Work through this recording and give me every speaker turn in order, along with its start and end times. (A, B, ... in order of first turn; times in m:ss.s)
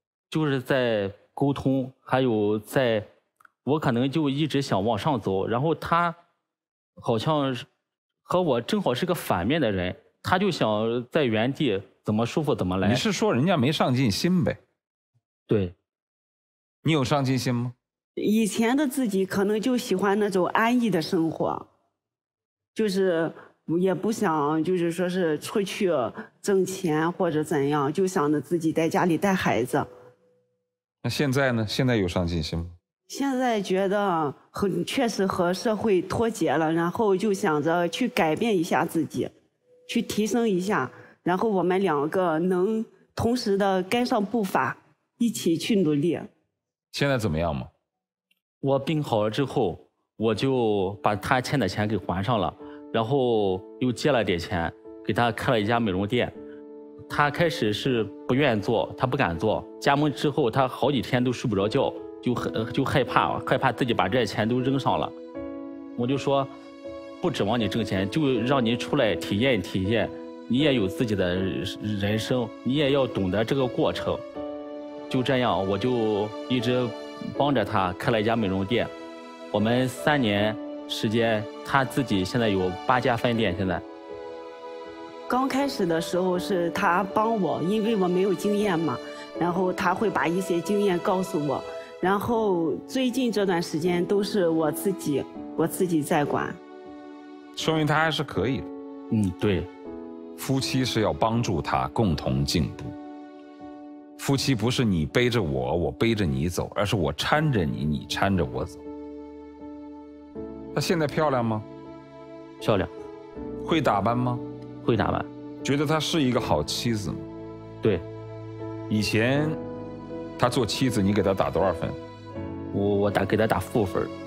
0:00.3-0:03.1 A
0:03.6-0:06.2 A
0:07.0-0:07.7 A
0:08.2-0:13.0 A
0:12.8-0:14.6 B
0:15.5-0:15.7 A
0:16.8-0:17.7 B
0:18.2-0:21.7 C
0:22.7-0:29.9 C
0:31.0-0:32.7 B
0:33.1-0:39.3 C
0:39.9-0:46.3 C
0:46.9-0:47.7 B
0:48.6-0:56.3 A
0:57.1-1:05.1 A
1:06.0-1:06.5 A
1:07.2-1:14.2 A
1:15.1-1:18.9 A
1:19.5-1:23.8 A
1:25.3-1:36.6 C
1:37.5-1:38.7 B
1:39.1-1:39.7 A
1:40.4-1:43.0 B
1:44.2-1:48.8 B
1:50.7-1:51.6 B
1:52.6-1:52.9 A
1:53.6-1:54.4 B
1:54.8-1:55.3 A
1:55.6-1:57.3 B
1:58.9-1:59.6 B
2:00.4-2:02.0 B
2:02.7-2:04.1 A